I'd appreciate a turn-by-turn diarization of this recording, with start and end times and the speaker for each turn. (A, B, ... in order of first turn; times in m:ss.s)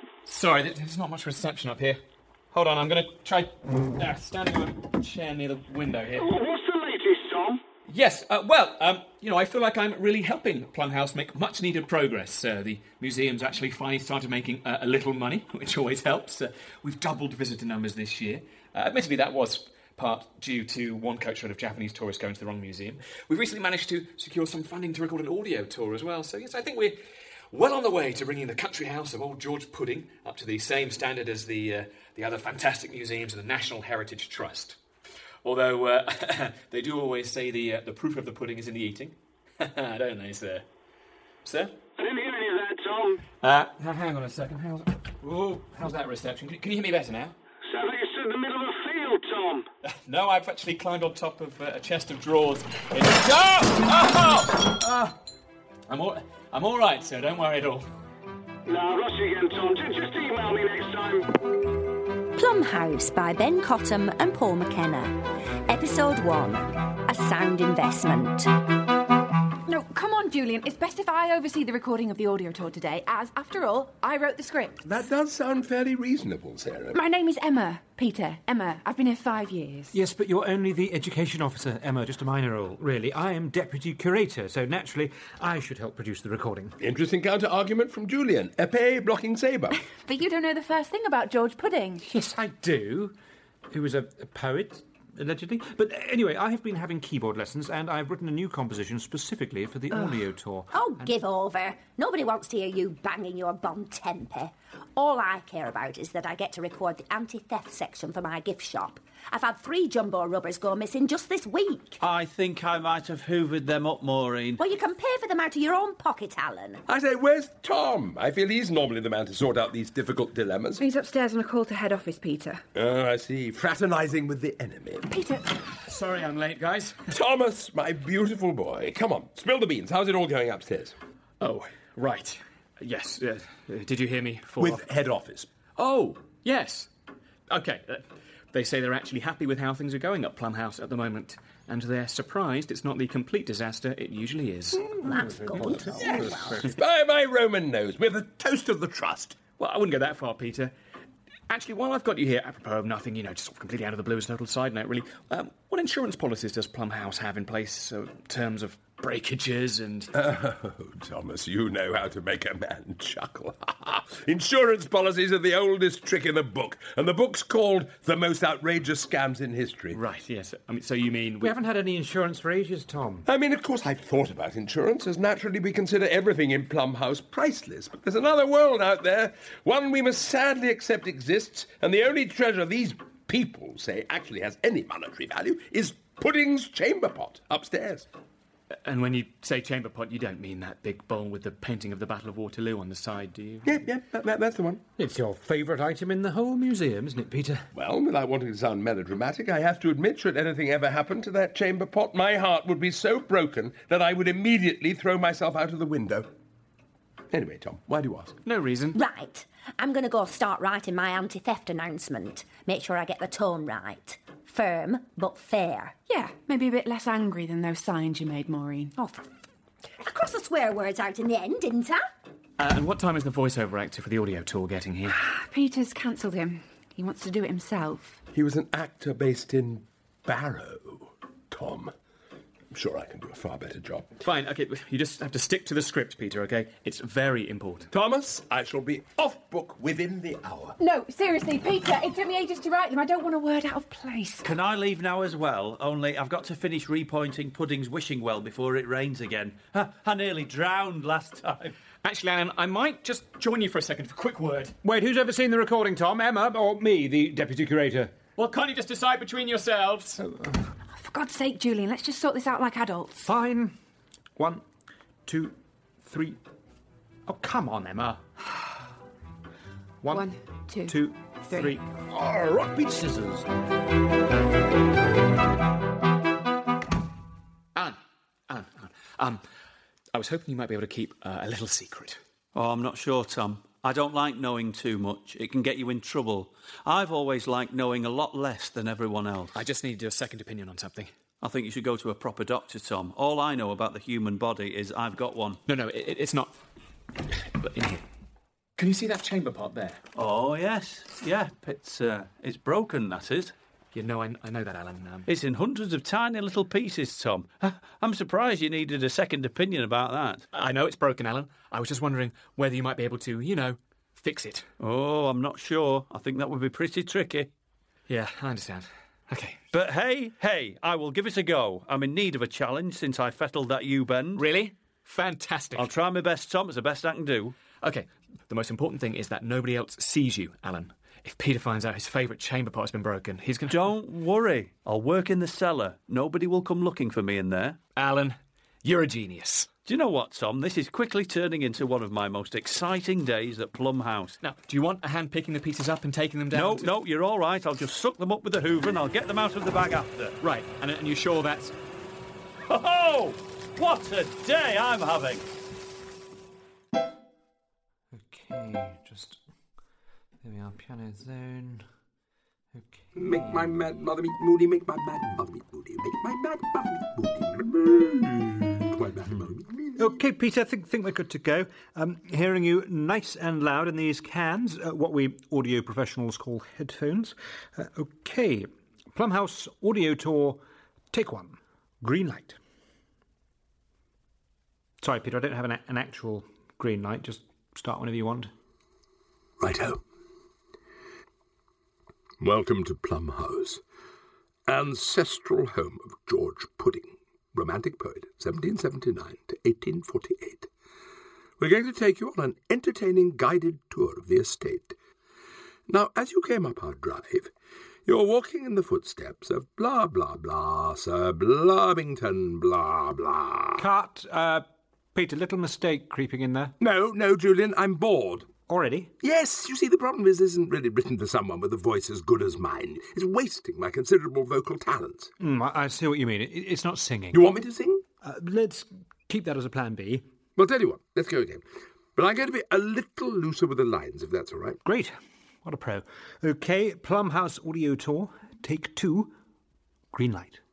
0:00.2-0:02.0 A
0:02.5-0:06.3 A
0:06.2-0:07.6 B
0:07.9-0:27.0 A
0:27.5-0:34.8 A
0:35.4-0:40.6 A
0:41.4-0:41.8 A
0:42.0-0:43.2 B
0:43.4-0:47.4 A
0:47.6-0:49.7 B
0:49.8-0:55.2 A
0:55.9-0:57.8 A
0:58.6-1:01.3 B
1:02.3-1:08.5 C
1:09.6-1:15.0 D
1:14.8-1:17.0 E
1:16.9-1:19.9 D
1:19.9-1:26.8 F
1:26.8-1:29.8 E
1:29.8-1:32.0 D
1:32.0-1:33.1 F
1:33.7-1:40.7 F
1:40.7-1:52.0 C
1:52.0-1:54.6 G
1:54.6-1:56.8 C
1:56.9-2:00.8 E
2:00.8-2:02.6 D
2:02.7-2:05.1 E
2:05.1-2:05.4 D
2:05.8-2:07.0 A
2:07.1-2:10.9 E
2:11.4-2:14.8 A
2:14.6-2:15.5 E
2:15.8-2:16.9 A
2:17.5-2:24.9 A
2:25.0-2:29.4 E
2:25.0-2:26.7 C
2:29.6-2:30.7 A
2:31.5-2:40.1 A
2:40.1-2:50.0 E
2:49.9-2:51.6 A
2:51.4-2:53.2 F
2:53.3-3:08.1 E
3:08.8-3:13.8 A
3:13.6-3:14.8 E
3:15.0-3:17.6 F
3:17.7-3:26.3 E
3:27.3-3:28.4 E
3:28.4-3:29.0 A
3:28.9-3:35.9 C
3:36.1-3:38.9 D
3:39.0-3:39.2 C
3:40.0-3:42.0 C
3:42.6-3:45.2 A
3:45.1-3:48.2 D
3:48.3-3:51.9 E
3:52.7-3:54.1 E
3:54.2-3:57.9 A
3:57.9-4:00.8 E
4:00.8-4:04.5 D
4:04.4-4:11.7 G
4:12.0-4:14.8 A
4:14.8-4:18.1 F
4:18.4-4:20.2 A
4:20.2-4:20.5 F
4:20.9-4:23.3 D
4:23.2-4:23.7 F
4:24.4-4:24.6 F
4:25.2-4:26.4 F
4:27.3-4:28.2 F
4:30.0-4:30.3 F
4:30.1-4:31.0 D
4:30.9-4:33.3 F
4:31.5-4:31.8 D
4:32.1-4:33.4 E
4:37.7-4:39.4 A
4:40.1-4:42.2 A
4:42.5-4:49.6 G
4:49.5-4:51.1 A
4:51.4-4:55.6 G
4:55.7-4:56.6 A
4:57.3-4:58.0 A
4:58.8-5:00.0 A
5:00.1-5:03.5 G
5:03.9-5:05.3 A
5:05.3-5:10.4 G
5:10.5-5:14.7 A
5:14.8-5:17.5 G
5:18.1-5:19.6 A
5:19.7-5:24.4 G
5:24.4-5:25.9 A
5:25.8-5:27.6 G
5:27.8-5:33.9 A
5:33.7-5:37.8 G
5:38.0-5:39.7 A
5:39.8-5:44.4 G
5:44.4-5:46.9 A
5:46.5-5:50.4 G
5:50.4-5:51.7 A
5:52.6-5:55.4 G
5:58.1-5:59.4 F
6:00.4-6:01.8 F
6:02.7-6:03.7 F
6:03.1-6:10.1 E
6:10.0-6:20.6 F
6:21.1-6:22.6 F
6:25.0-6:28.5 F
6:29.6-6:30.0 E
6:32.4-6:33.8 E
6:34.7-6:40.7 E
6:41.6-6:45.0 E
6:45.9-6:47.5 E
6:48.0-6:53.8 E
6:53.8-6:56.7 F
6:56.8-6:58.5 E
6:58.7-6:59.1 F
6:59.2-7:05.3 E
7:05.4-7:07.4 F
7:07.3-7:08.0 E
7:08.2-7:10.3 F
7:10.6-7:11.6 E
7:12.2-7:14.8 E
7:14.8-7:19.3 F
7:20.1-7:20.6 F